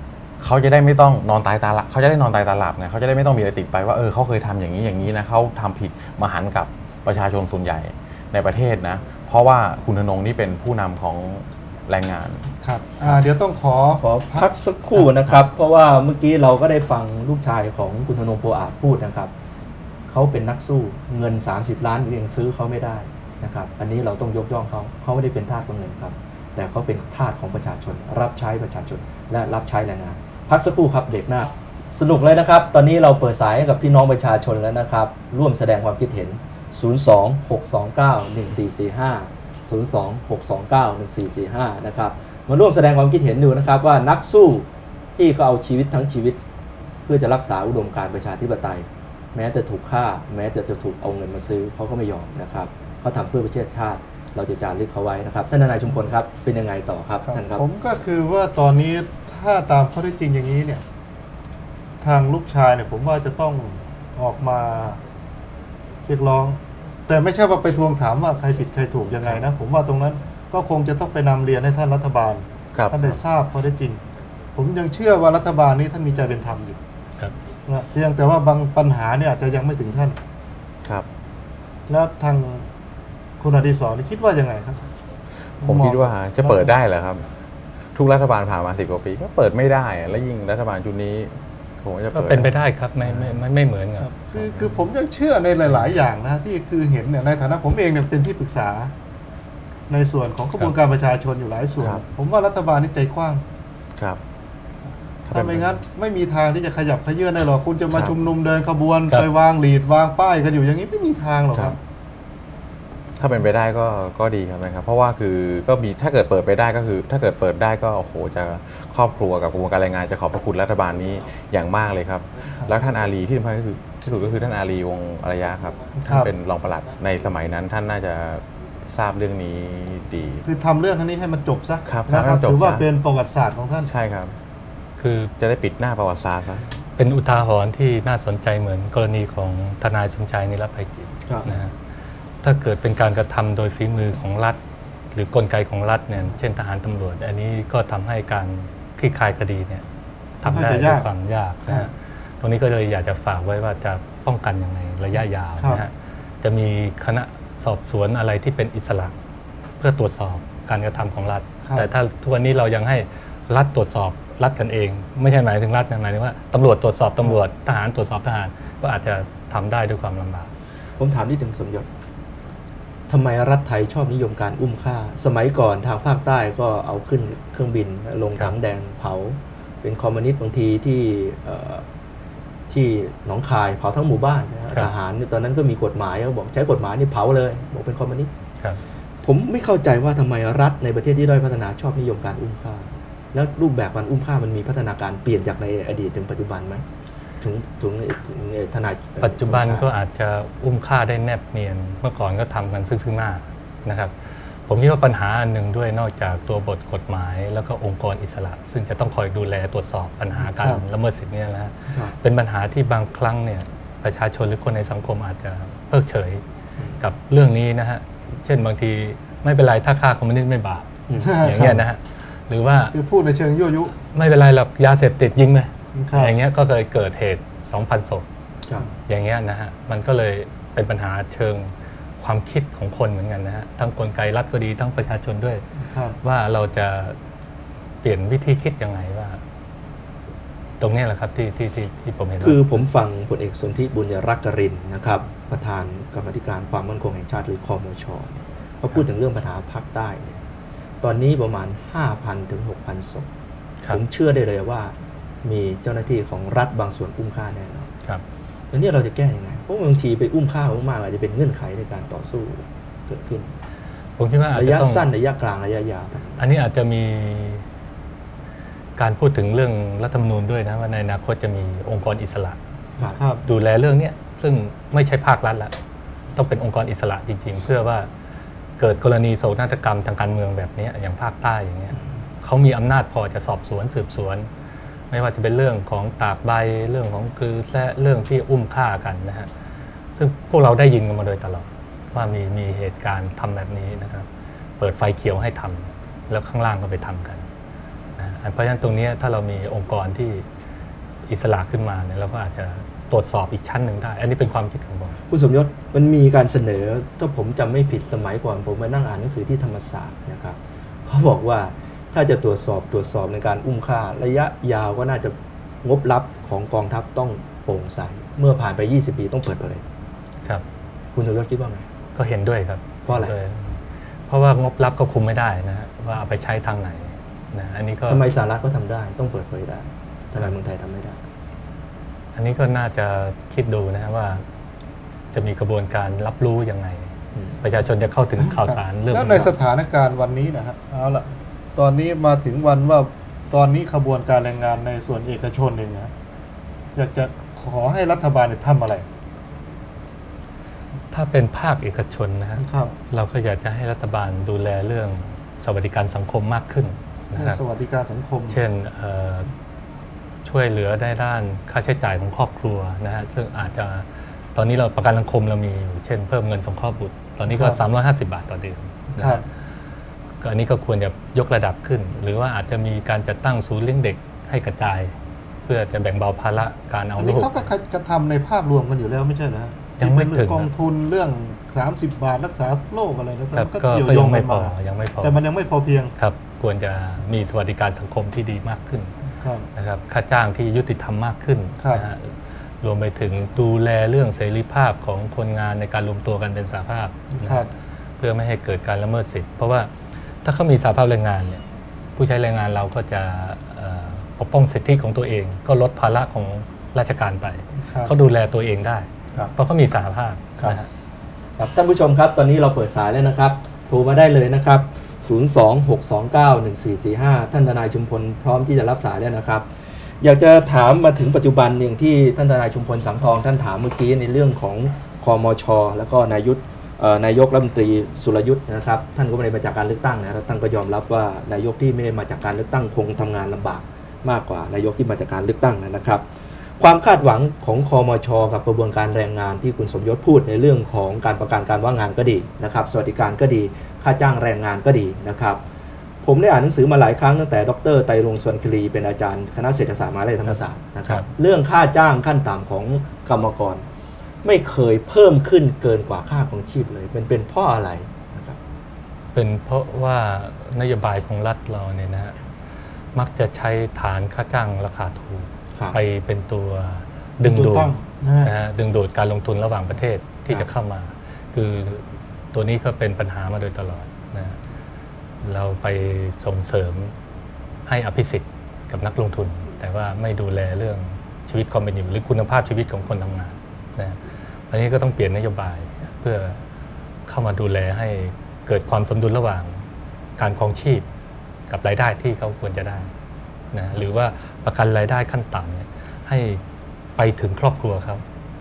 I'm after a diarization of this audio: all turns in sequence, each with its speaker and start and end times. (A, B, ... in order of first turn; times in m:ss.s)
0:00.4-0:12.5 A
0:12.6-0:15.4 B
0:14.0-0:19.3 C
0:20.1-0:46.4 C
0:47.0-0:57.6 C
0:57.2-1:00.8 B
1:02.0-1:05.0 B
1:06.1-1:14.0 B
1:12.7-1:13.2 A
1:14.6-1:16.8 B
1:17.7-1:20.2 B
1:21.9-1:22.7 B
1:23.4-1:24.8 B
1:25.6-1:27.2 A
1:25.6-1:26.7 B
1:27.9-1:33.4 A
1:32.1-1:34.1 D
1:34.0-1:38.9 B
1:39.9-1:43.4 B
1:45.2-1:45.8 A
1:45.3-1:51.8 B
1:53.2-2:10.4 A
2:06.0-2:06.3 B
2:10.4-2:13.9 B
2:11.8-2:12.8 A
2:13.8-2:14.3 A
2:15.0-2:15.3 D
2:15.4-2:16.6 A
2:17.0-2:21.7 D
2:21.3-2:21.6 C
2:22.4-2:24.6 D
2:25.1-2:29.8 D
2:30.4-2:39.1 D
2:30.4-2:31.1 B
2:35.6-2:35.8 B
2:39.8-2:50.5 D
2:41.6-2:41.9 B
2:51.0-2:51.9 C
2:53.1-3:01.8 C
3:02.7-3:08.3 C
3:09.2-3:16.8 C
3:17.4-3:19.9 C
3:19.2-3:36.4 D
3:30.6-3:30.8 B
3:31.9-3:32.2 C
3:37.0-3:40.9 D
3:41.1-3:41.3 C
3:41.2-3:41.8 B
3:41.4-3:42.9 D
3:42.9-3:44.0 B
3:44.1-3:48.2 D
3:45.9-3:46.4 B
3:49.1-3:55.6 D
3:55.9-3:56.2 B
3:56.2-3:57.2 D
3:58.0-3:59.4 D
4:00.8-4:02.8 D
4:02.4-4:10.4 C
4:11.0-4:13.3 C
4:13.9-4:17.9 C
4:18.7-4:23.5 C
4:24.2-4:25.1 D
4:24.5-4:26.4 C
4:26.4-4:27.6 D
4:29.0-4:32.6 D
4:33.0-4:33.4 B
4:33.4-4:35.7 D
4:36.3-4:38.1 D
4:38.8-4:44.5 D
4:45.1-4:49.5 D
4:50.1-4:54.3 D
4:54.8-4:57.5 D
4:58.2-5:00.4 D
5:01.3-5:05.2 D
5:05.3-5:19.8 C
5:21.1-5:21.8 C
5:22.2-5:28.3 D
5:23.0-5:23.3 C
5:28.1-5:31.2 C
5:32.3-5:34.4 D
5:35.3-5:37.1 D
5:37.3-5:37.6 C
5:37.6-5:39.5 D
5:39.1-5:46.1 B
5:46.9-5:49.0 B
5:51.1-5:57.6 D
5:52.6-5:53.0 B
5:57.4-5:58.6 B
5:58.5-5:59.5 D
6:00.4-6:09.4 D
6:07.5-6:07.8 B
6:09.2-6:09.4 B
6:10.4-6:15.1 D
6:15.6-6:17.7 D
6:17.2-6:26.1 B
6:20.0-6:20.7 D
6:23.5-6:25.4 D
6:26.2-6:29.1 D
6:29.4-6:29.7 B
6:29.8-6:37.7 D
6:37.4-6:37.7 B
6:38.2-6:39.9 D
6:40.4-6:41.6 D
6:42.2-6:50.9 D
6:47.8-6:48.1 B
6:51.6-6:59.7 C
7:00.2-7:16.2 C
7:16.8-7:25.6 C
7:26.2-7:33.8 C
7:34.4-7:38.6 C
7:39.3-7:42.3 D
7:43.1-7:54.6 D
7:47.4-7:48.5 B
7:55.4-7:57.1 D
7:57.8-8:06.6 D
8:07.3-8:09.8 D
8:10.4-8:11.0 D
8:11.7-8:13.1 D
8:13.7-8:16.6 D
8:17.2-8:18.2 D